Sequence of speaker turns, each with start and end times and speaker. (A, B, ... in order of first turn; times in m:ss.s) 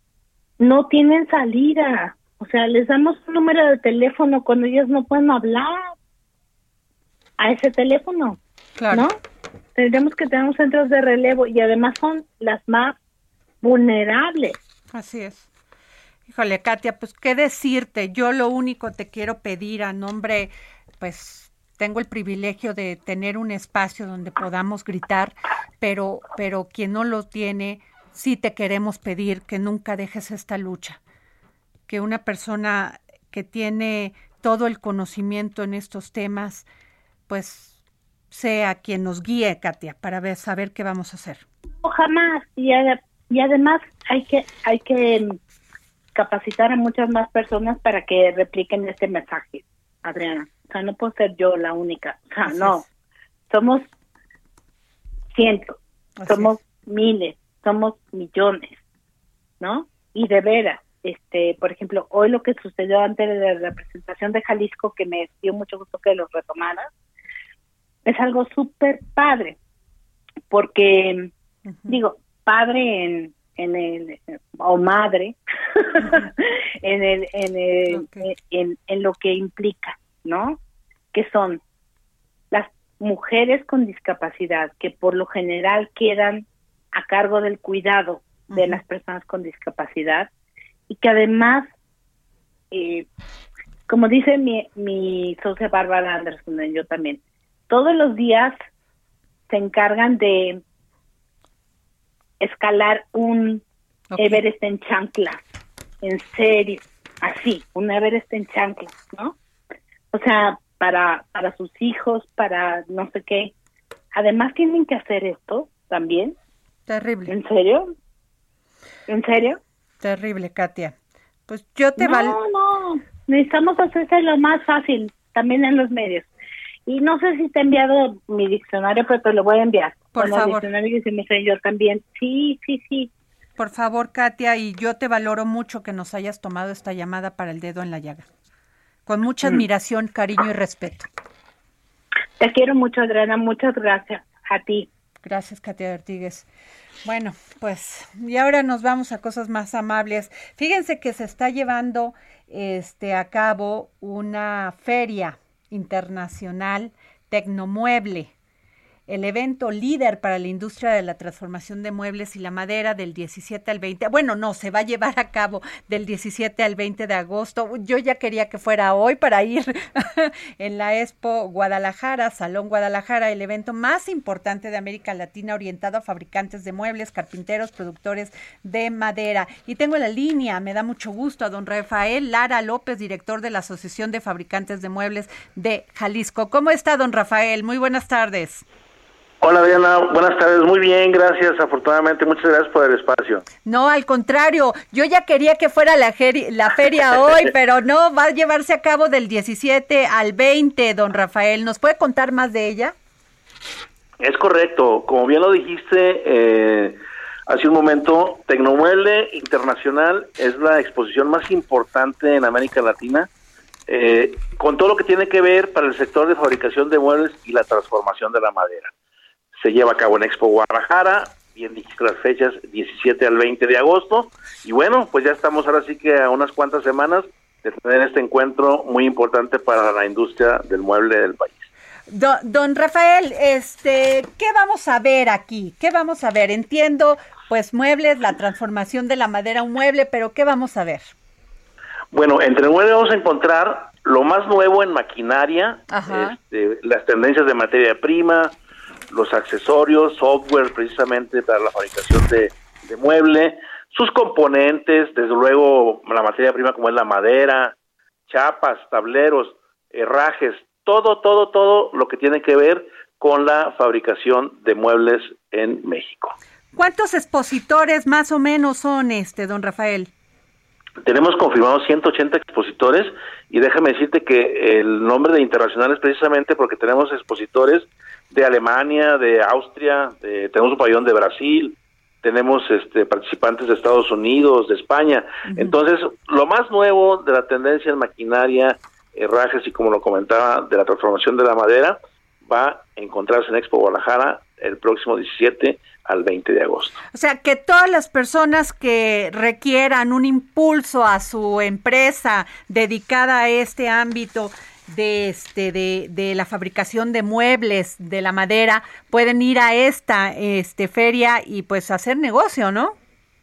0:00.6-0:06.0 A
0:07.4-0:08.4 A
0:08.8-0:09.1 B
0:08.9-0:09.2 A
0:09.8-0:13.0 A
0:13.6-0:14.6 A
0:14.9-0:15.5 B
0:16.3-0:31.0 B
0:31.9-0:36.7 B
0:37.3-0:37.8 B
0:38.3-0:41.4 B
0:41.8-0:45.4 A
0:46.2-0:52.8 A
0:52.5-0:52.8 B
0:53.5-0:53.9 A
0:55.3-0:58.8 A
0:56.2-0:56.6 B
0:59.6-1:06.9 A
1:08.1-1:09.6 A
1:10.5-1:11.3 A
1:11.7-1:12.0 B
1:11.9-1:15.4 A
1:15.9-1:20.6 A
1:17.9-1:18.3 B
1:21.1-1:21.6 A
1:22.5-1:30.3 A
1:28.5-1:28.8 B
1:30.9-1:31.7 A
1:32.7-1:33.1 A
1:33.9-1:38.6 A
1:39.5-1:40.6 A
1:42.4-1:43.6 A
1:44.1-1:44.4 B
1:44.2-1:45.4 A
1:46.0-1:49.4 A
1:50.1-1:53.5 A
1:54.2-1:56.4 A
1:56.9-1:57.3 B
1:57.3-1:57.9 A
1:59.1-1:59.6 A
2:00.0-2:01.0 B
2:01.5-2:02.4 B
2:02.0-2:06.3 A
2:06.9-2:13.1 A
2:10.1-2:10.7 B
2:13.6-2:18.3 B
2:19.1-2:21.1 B
2:22.4-2:24.9 A
2:25.2-2:26.5 B
2:27.0-2:38.3 B
2:39.1-3:08.6 B
3:09.4-3:13.4 C
3:13.6-3:22.9 B
3:24.2-3:33.3 C
3:33.9-3:38.9 C
3:39.6-3:51.7 C
3:52.1-4:01.1 B
4:02.1-4:08.6 C
4:05.9-4:06.4 B
4:09.1-4:17.8 C
4:18.3-4:26.4 C
4:26.8-4:30.1 B
4:31.0-4:57.0 C
4:45.5-4:45.8 B
4:57.1-5:13.0 B